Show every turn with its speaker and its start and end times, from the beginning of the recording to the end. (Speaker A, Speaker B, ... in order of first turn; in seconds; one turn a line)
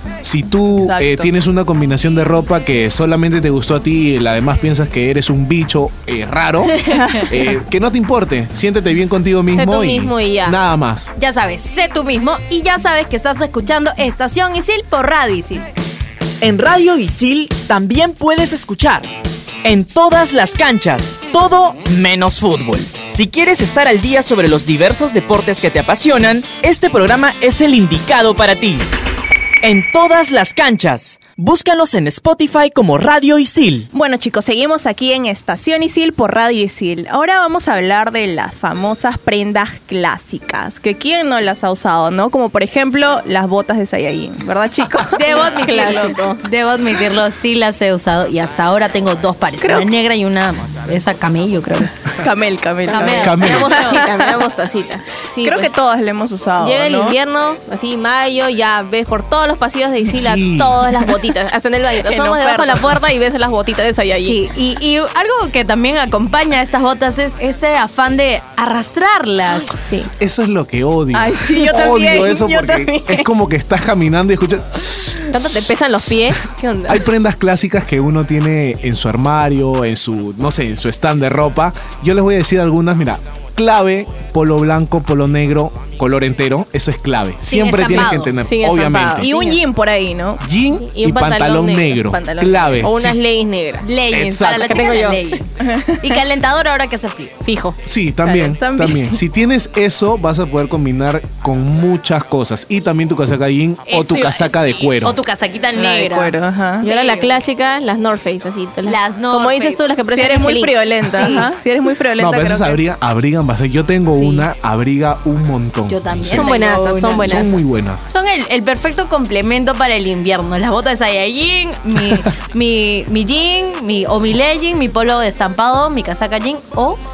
Speaker A: 0.2-11.1
Speaker B: 0.8-1.3
Speaker B: 6.9-7.4
Speaker C: 9.5-10.6
Speaker D: 11.2-15.7
Speaker E: 16.4-19.1
Speaker E: 19.6-28.9
Speaker E: 29.6-33.9
Speaker B: 33.9-45.2
Speaker D: 45.1-52.0
Speaker C: 45.2-46.4
Speaker B: 49.6-49.9
Speaker B: 52.2-54.4
Speaker D: 52.9-54.0
Speaker C: 52.9-55.7
Speaker A: 53.2-53.8
Speaker B: 55.4-57.2
Speaker C: 56.6-64.4
Speaker A: 60.1-60.9
Speaker B: 62.0-63.0
Speaker D: 64.2-69.7
Speaker C: 69.7-70.1
Speaker A: 70.2-89.3
Speaker B: 71.1-73.2
Speaker C: 75.3-77.0
Speaker D: 87.5-88.3
Speaker C: 87.9-89.5
Speaker B: 89.2-90.4
Speaker A: 90.4-93.2
Speaker C: 90.8-92.0
Speaker B: 92.0-92.9
Speaker C: 92.8-93.9
Speaker D: 93.8-95.5
Speaker A: 94.1-94.9
Speaker C: 94.6-95.3
Speaker B: 95.6-96.3
Speaker D: 96.0-97.4
Speaker C: 97.5-97.8
Speaker A: 97.8-105.2
Speaker B: 98.2-99.2
Speaker D: 103.9-107.4
Speaker B: 105.8-106.9
Speaker C: 106.8-111.5
Speaker D: 108.9-109.8
Speaker B: 110.1-112.8
Speaker A: 112.2-116.5
Speaker D: 115.9-127.0
Speaker C: 116.3-117.6
Speaker A: 117.2-118.0